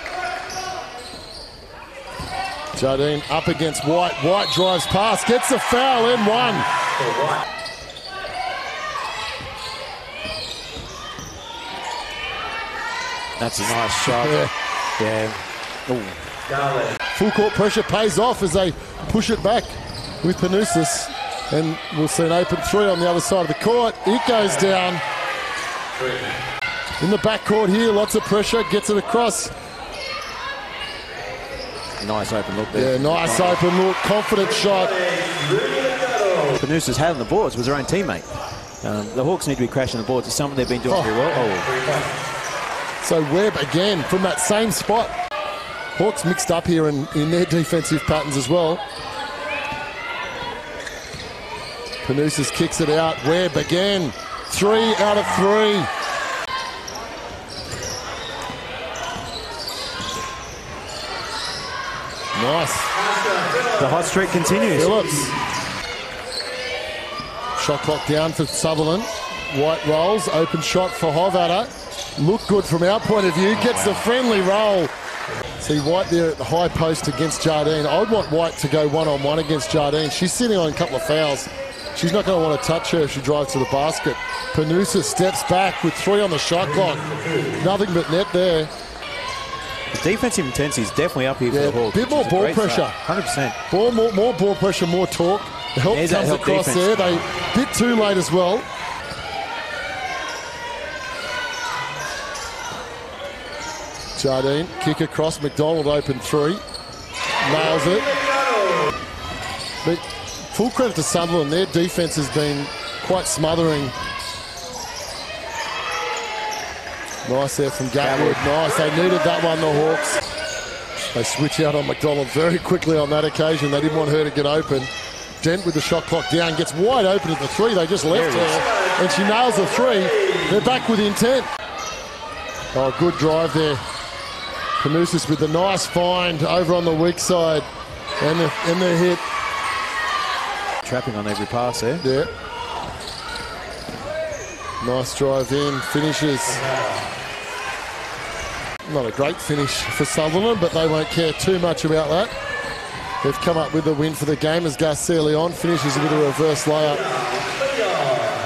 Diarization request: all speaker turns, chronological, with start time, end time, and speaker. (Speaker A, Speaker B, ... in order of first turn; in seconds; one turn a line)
Speaker A: 2.7-6.7
Speaker B: 13.4-14.4
Speaker A: 14.1-14.5
Speaker B: 15.0-16.2
Speaker A: 17.1-25.0
Speaker A: 27.0-29.5
Speaker B: 32.0-33.6
Speaker A: 32.7-35.0
Speaker B: 36.5-38.3
Speaker B: 38.8-42.0
Speaker A: 40.8-41.5
Speaker A: 43.0-45.1
Speaker A: 46.0-48.8
Speaker A: 52.0-55.9
Speaker A: 62.4-62.9
Speaker B: 63.7-65.2
Speaker A: 64.7-65.3
Speaker A: 67.5-74.9
Speaker B: 73.5-74.0
Speaker A: 75.6-88.7
Speaker B: 89.9-93.5
Speaker A: 91.5-93.0
Speaker A: 93.7-98.7
Speaker B: 95.9-97.2
Speaker A: 104.2-106.6
Speaker A: 107.4-108.1
Speaker A: 109.8-113.9
Speaker A: 117.2-120.1
Speaker B: 118.0-118.5
Speaker A: 121.1-131.5
Speaker B: 128.1-128.6
Speaker A: 132.7-133.8
Speaker A: 134.8-137.7
Speaker A: 138.2-139.2
Speaker B: 140.8-142.0
Speaker A: 142.0-142.3
Speaker A: 144.8-146.7
Speaker A: 148.8-152.3
Speaker A: 153.2-157.1